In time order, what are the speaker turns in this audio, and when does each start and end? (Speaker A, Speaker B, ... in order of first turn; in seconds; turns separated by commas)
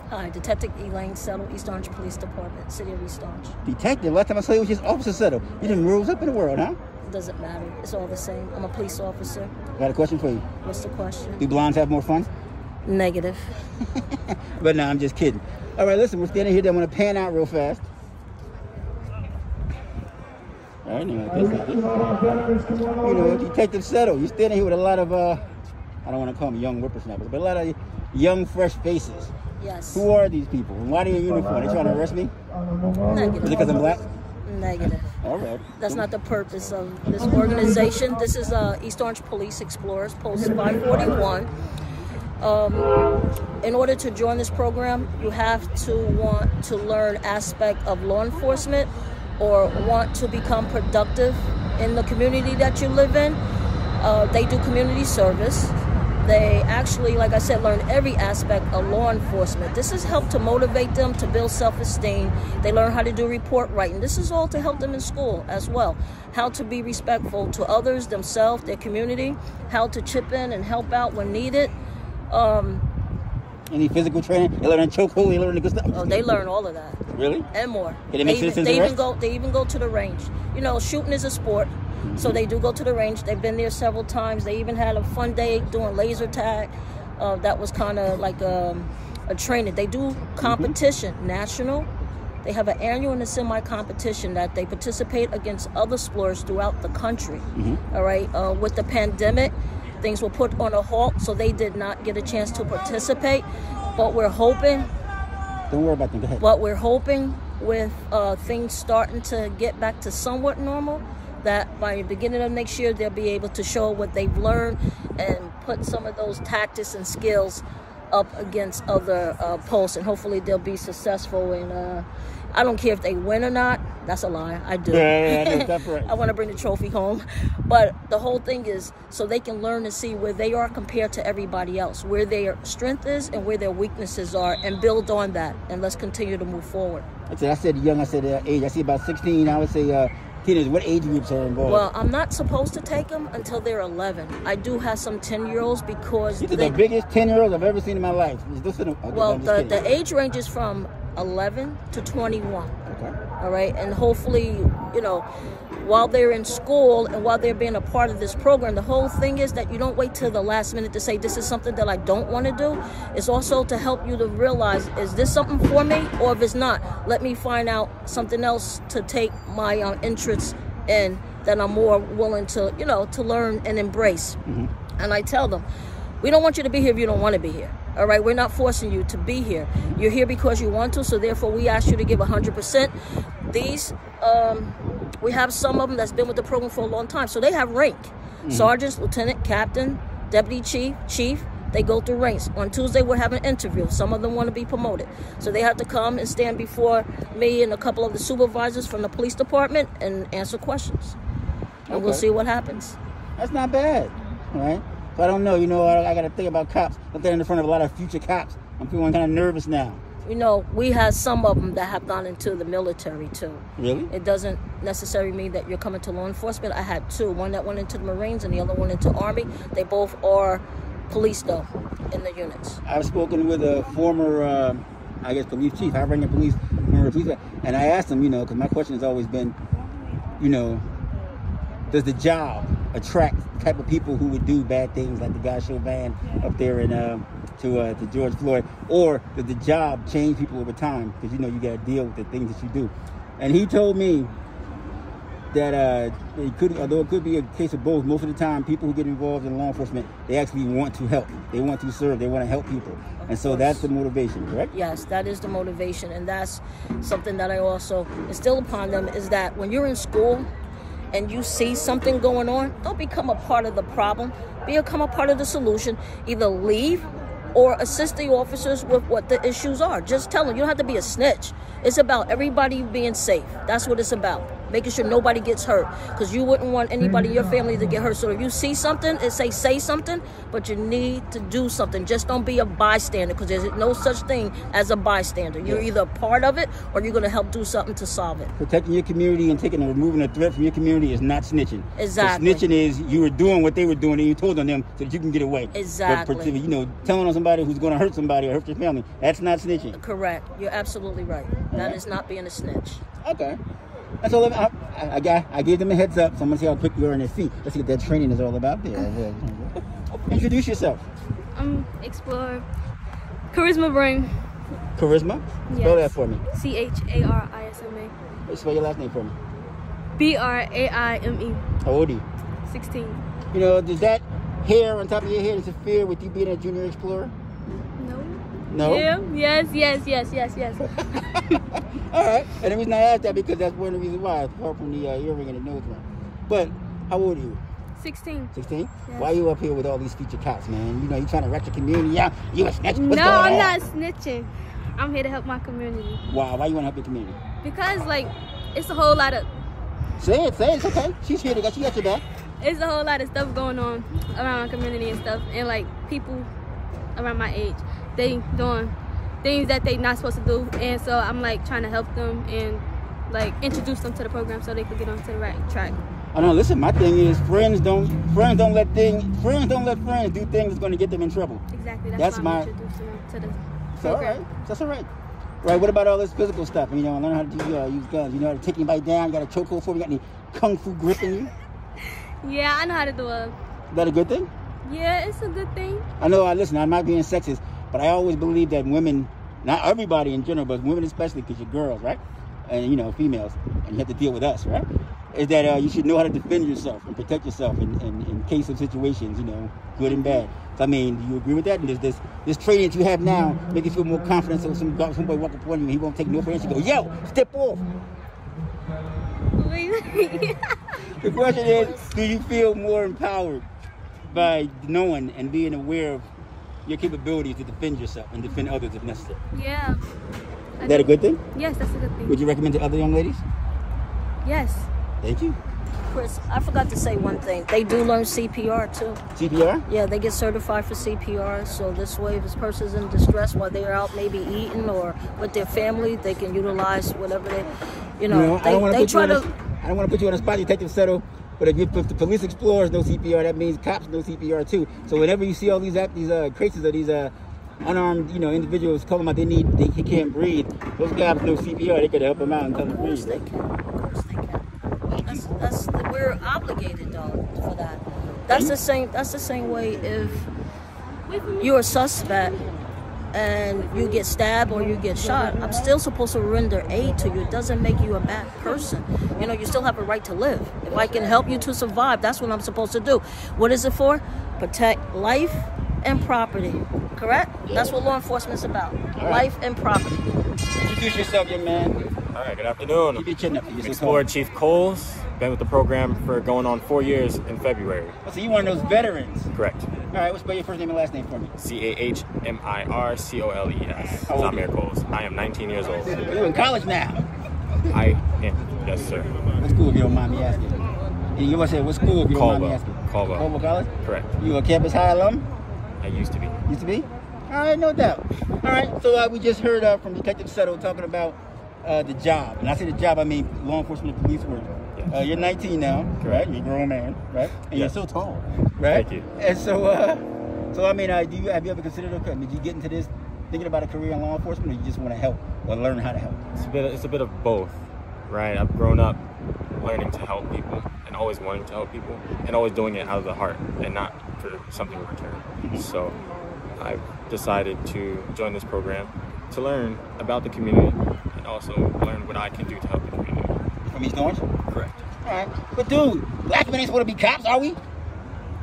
Speaker A: 0.1-3.5, Speaker B: 3.6-6.8, Speaker A: 7.0-9.5, Speaker B: 9.8-10.5, Speaker A: 10.6-11.4, Speaker B: 11.4-12.3, Speaker A: 12.8-13.5, Speaker B: 13.9-17.9, Speaker B: 20.9-25.4, Speaker B: 26.1-29.3, Speaker A: 29.6-30.1, Speaker B: 29.9-32.3, Speaker A: 33.1-33.8, Speaker B: 33.4-34.0, Speaker A: 34.5-35.1, Speaker B: 34.8-36.1, Speaker A: 35.8-41.5, Speaker A: 42.4-42.9, Speaker A: 43.6-53.4, Speaker A: 54.0-71.7, Speaker A: 72.3-72.8, Speaker B: 73.7-76.3, Speaker A: 75.9-77.0, Speaker B: 77.1-77.5, Speaker A: 77.5-91.9, Speaker B: 78.1-79.0, Speaker B: 82.0-82.4, Speaker B: 90.4-90.8, Speaker A: 92.4-104.9, Speaker B: 97.5-97.8, Speaker B: 105.7-106.4, Speaker A: 106.4-137.1, Speaker B: 124.9-126.2, Speaker B: 137.3-141.9, Speaker A: 141.7-146.8, Speaker B: 146.4-149.9, Speaker A: 149.1-152.7, Speaker B: 152.9-153.2, Speaker A: 153.4-155.3, Speaker A: 155.8-174.4, Speaker B: 174.5-174.7, Speaker A: 175.0-175.7, Speaker A: 176.2-182.9, Speaker A: 183.5-201.2, Speaker B: 188.4-188.7, Speaker B: 201.9-202.2, Speaker A: 201.9-203.0, Speaker B: 203.4-210.0, Speaker A: 210.2-222.8, Speaker B: 213.8-214.1, Speaker B: 222.9-229.6, Speaker B: 230.4-230.8, Speaker B: 231.9-244.3, Speaker B: 245.5-254.7, Speaker A: 253.2-253.9, Speaker A: 254.7-260.5, Speaker A: 261.1-288.5, Speaker B: 285.6-285.9, Speaker B: 288.6-300.0, Speaker A: 292.0-292.6, Speaker A: 295.7-296.6, Speaker A: 299.9-303.0, Speaker B: 301.7-302.0, Speaker B: 303.2-303.6, Speaker B: 304.2-311.1, Speaker C: 311.6-312.6, Speaker C: 313.5-314.3, Speaker B: 315.0-316.4, Speaker C: 315.7-318.1, Speaker B: 318.5-319.4, Speaker C: 320.2-321.7, Speaker B: 321.8-322.2, Speaker C: 322.7-323.2, Speaker B: 323.5-327.3, Speaker C: 328.0-330.9, Speaker B: 328.7-329.1, Speaker B: 330.9-337.6, Speaker C: 338.0-338.5, Speaker B: 338.5-343.8, Speaker C: 339.1-339.3, Speaker C: 342.9-346.2, Speaker B: 346.2-347.4, Speaker C: 347.6-349.5, Speaker B: 350.2-352.2, Speaker C: 352.6-356.5, Speaker C: 357.2-366.0, Speaker B: 366.3-371.6, Speaker C: 371.7-374.4, Speaker B: 372.1-372.7, Speaker B: 374.0-375.1, Speaker B: 375.6-381.5, Speaker C: 382.4-383.6, Speaker B: 383.9-384.5, Speaker C: 384.8-386.1, Speaker B: 386.2-407.8, Speaker C: 409.6-410.8, Speaker B: 411.1-413.7, Speaker B: 414.3-416.3, Speaker B: 416.9-419.4, Speaker C: 419.5-420.0, Speaker C: 420.8-422.4, Speaker B: 420.9-421.4, Speaker B: 422.3-423.4, Speaker C: 424.4-424.9, Speaker B: 425.2-425.6, Speaker A: 426.1-429.2, Speaker B: 429.4-429.8, Speaker A: 429.9-439.5, Speaker B: 438.3-453.4, Speaker A: 452.7-454.6, Speaker B: 455.1-455.5, Speaker A: 455.2-460.5, Speaker B: 458.5-458.8, Speaker C: 461.3-461.7, Speaker A: 461.6-462.6, Speaker A: 463.3-480.2, Speaker B: 477.7-477.9, Speaker B: 479.2-479.5, Speaker B: 480.7-482.0, Speaker D: 482.3-488.2, Speaker B: 483.1-484.3, Speaker B: 488.2-489.5, Speaker D: 489.5-489.9, Speaker B: 490.1-491.5, Speaker D: 491.6-496.4, Speaker B: 494.3-494.7, Speaker B: 496.0-497.3, Speaker D: 497.9-499.3, Speaker B: 499.6-500.8, Speaker B: 501.4-505.5, Speaker D: 502.3-503.5, Speaker D: 504.0-504.3, Speaker D: 506.0-506.6, Speaker B: 506.7-526.4, Speaker D: 516.2-516.5, Speaker D: 517.6-518.0, Speaker D: 518.9-519.3, Speaker D: 526.5-529.2, Speaker D: 529.8-536.2, Speaker B: 535.6-535.9, Speaker D: 536.8-543.6, Speaker B: 543.9-544.5, Speaker D: 544.7-545.0, Speaker B: 545.2-547.8